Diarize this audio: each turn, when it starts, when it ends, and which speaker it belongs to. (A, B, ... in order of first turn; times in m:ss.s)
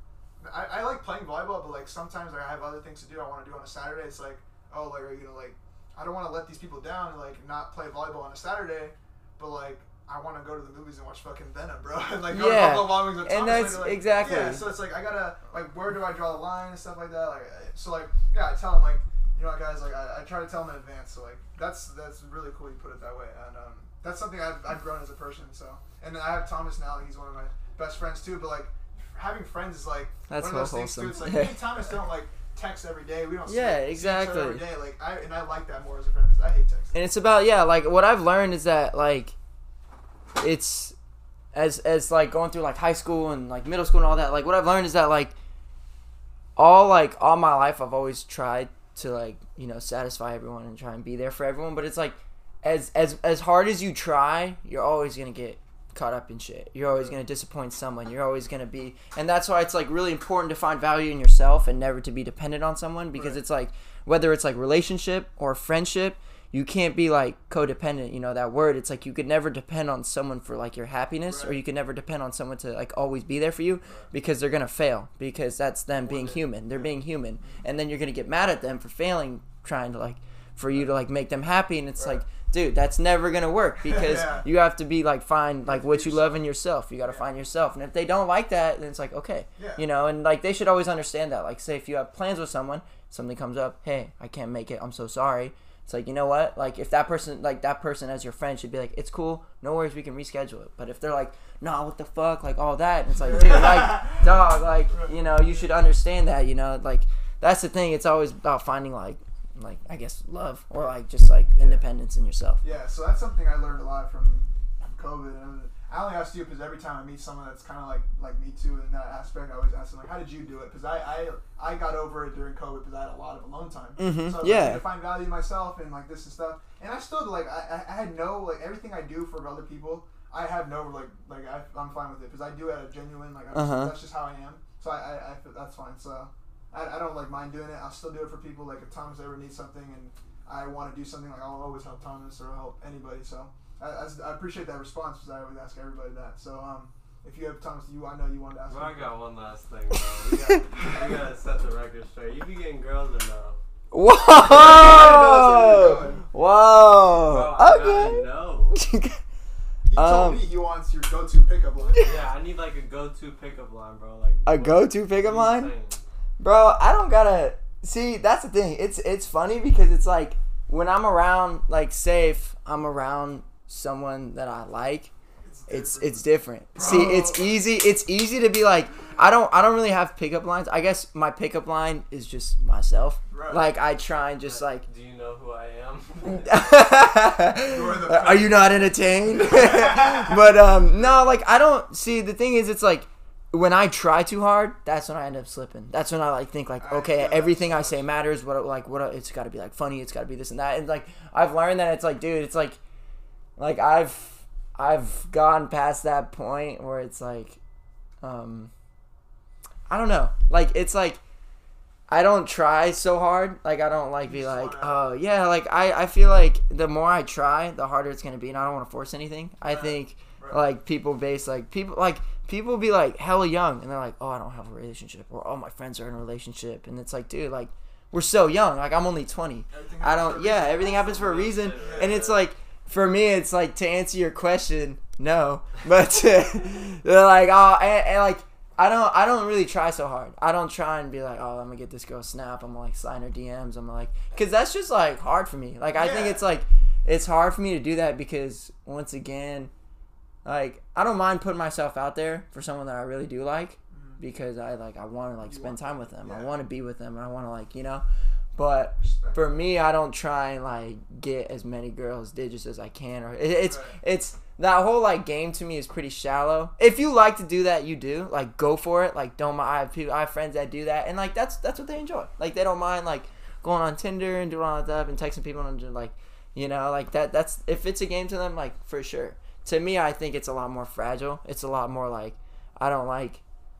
0:00.4-0:36.9 A
0:12.3-0:14.6 B
0:30.3-0:31.6 B
0:33.5-0:34.6 B
0:36.9-0:39.4 B
0:40.4-0:41.0 B
0:41.5-0:45.3 B
0:46.6-1:52.6 B
0:56.9-0:57.2 A
1:03.1-1:03.4 A
1:11.3-1:11.6 A
1:16.0-1:16.4 C
1:16.7-1:17.6 A
1:22.0-1:22.2 A
1:23.8-1:24.5 A
1:25.6-1:26.4 A
1:29.6-1:29.8 A
1:43.2-1:45.7 A
1:51.5-1:51.8 A
1:52.6-2:29.1 A
2:04.0-2:04.9 B
2:13.5-2:14.0 B
2:28.7-2:33.6 C
2:30.3-2:31.1 A
2:33.9-2:39.2 B
2:34.4-2:36.2 A
2:37.2-2:38.8 C
2:39.9-2:42.2 A
2:39.9-2:40.4 B
2:41.9-2:42.2 B
2:42.0-2:46.0 C
2:44.4-2:45.7 B
2:46.4-2:55.1 B
2:55.4-2:57.6 A
2:55.7-3:04.8 B
3:03.3-3:03.6 A
3:04.4-3:06.5 C
3:06.3-3:22.8 B
3:07.6-3:10.4 A
3:16.8-3:18.1 A
3:23.6-3:27.6 B
3:28.2-3:28.7 B
3:29.9-3:31.2 B
3:32.1-4:09.7 B
3:34.2-3:35.0 A
3:39.6-3:40.6 A
3:49.7-3:52.3 A
3:50.8-3:52.4 C
4:05.9-4:06.4 A
4:10.4-4:18.0 B
4:13.9-4:14.2 A
4:15.4-4:16.6 A
4:18.6-4:43.4 B
4:19.0-4:19.6 A
4:23.6-4:24.0 A